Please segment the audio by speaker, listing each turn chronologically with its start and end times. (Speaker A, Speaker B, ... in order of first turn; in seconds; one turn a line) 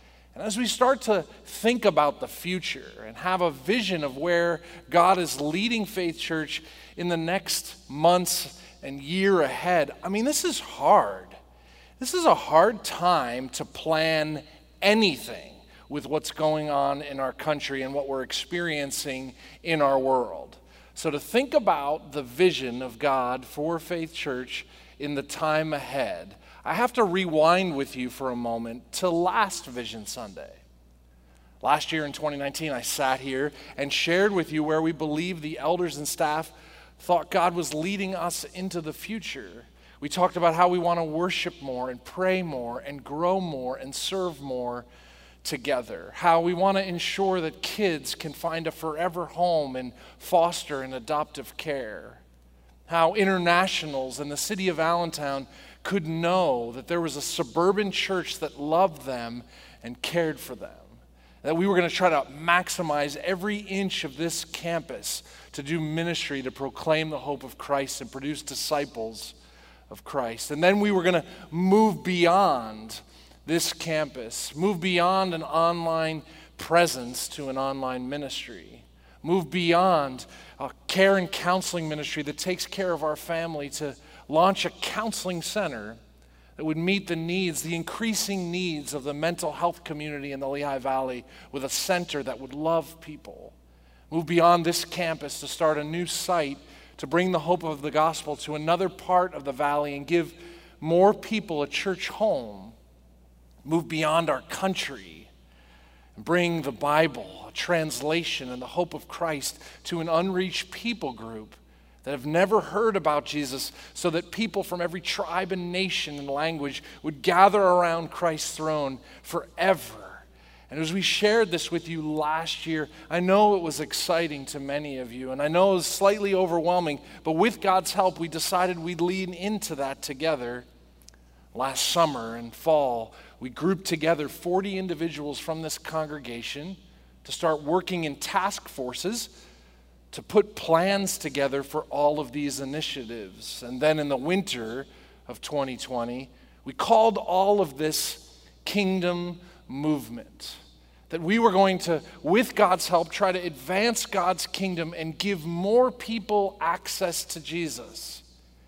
Speaker A: 0.3-11.3
Speaker A: 12.0-30.6
Speaker A: 31.6-44.9
Speaker A: 45.4-52.2
Speaker A: 52.9-69.3
Speaker A: 69.9-86.0
Speaker A: 86.6-93.5
Speaker A: 94.1-102.7
Speaker A: 103.7-105.3
Speaker A: 106.2-130.7
Speaker A: 131.5-139.3
Speaker A: 140.1-158.2